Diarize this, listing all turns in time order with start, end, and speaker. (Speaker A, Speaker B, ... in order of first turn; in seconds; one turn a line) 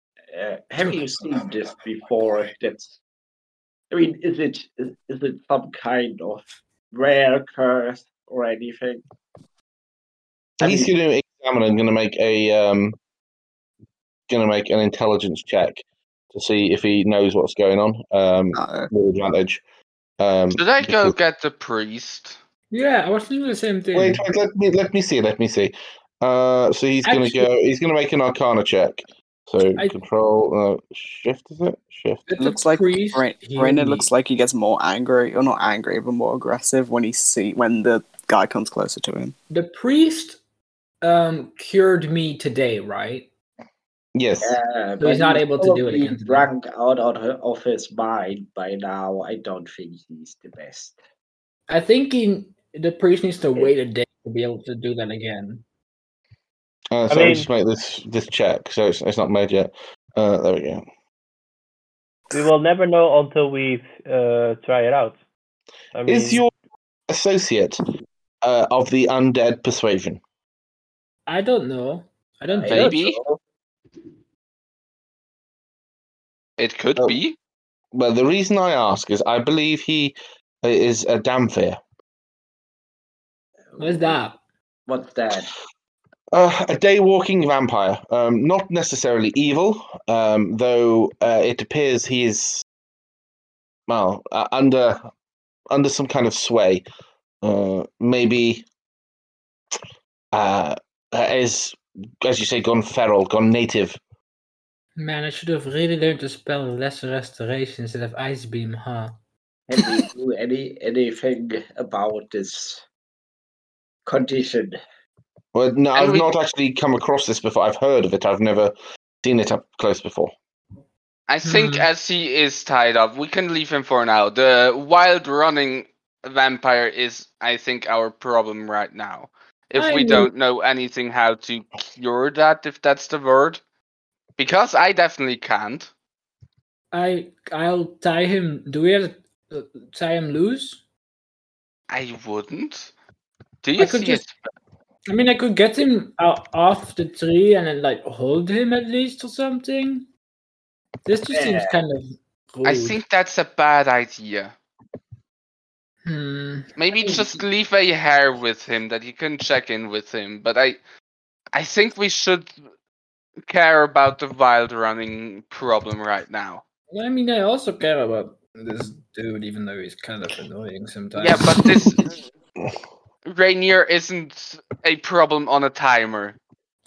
Speaker A: 0.3-3.0
Speaker A: 3.9-9.0
Speaker A: 10.6-10.9
Speaker B: 10.6-13.0
Speaker B: 14.3-19.6
Speaker C: 18.5-18.9
Speaker B: 20.2-21.1
Speaker D: 20.5-22.4
Speaker E: 22.7-24.2
Speaker B: 23.9-32.3
Speaker E: 27.0-27.5
Speaker E: 32.3-34.1
Speaker C: 32.4-39.3
Speaker E: 39.5-40.4
Speaker E: 41.0-43.3
Speaker B: 44.1-44.6
Speaker A: 44.4-51.0
Speaker E: 45.0-46.5
Speaker E: 51.7-55.6
Speaker B: 56.9-60.8
Speaker F: 57.1-57.5
Speaker F: 62.3-65.2
Speaker F: 65.9-66.4
Speaker B: 66.0-66.5
Speaker B: 67.1-67.8
Speaker B: 68.4-70.2
Speaker E: 71.3-73.0
Speaker A: 72.5-73.4
Speaker D: 72.7-73.2
Speaker D: 76.6-77.3
Speaker B: 77.9-81.8
Speaker A: 83.7-84.2
Speaker E: 83.8-84.4
Speaker A: 84.9-85.5
Speaker B: 86.3-92.6
Speaker B: 93.9-95.0
Speaker B: 95.7-96.8
Speaker B: 97.4-98.6
Speaker B: 100.3-104.0
Speaker E: 105.0-109.1
Speaker A: 109.7-112.8
Speaker A: 114.0-114.8
Speaker B: 115.5-120.3
Speaker D: 115.9-116.3
Speaker D: 121.3-133.6
Speaker E: 121.4-121.9
Speaker E: 129.8-130.3
Speaker D: 134.4-135.9
Speaker E: 136.9-140.8
Speaker D: 141.9-142.9
Speaker D: 143.6-144.3
Speaker E: 143.8-144.2
Speaker E: 145.1-150.1
Speaker E: 151.1-153.0
Speaker A: 151.3-151.8
Speaker D: 152.6-154.5
Speaker E: 156.0-156.7
Speaker D: 156.8-160.8
Speaker D: 161.5-162.5
Speaker D: 163.5-166.6
Speaker E: 166.9-171.8
Speaker D: 171.2-172.2
Speaker D: 173.2-176.4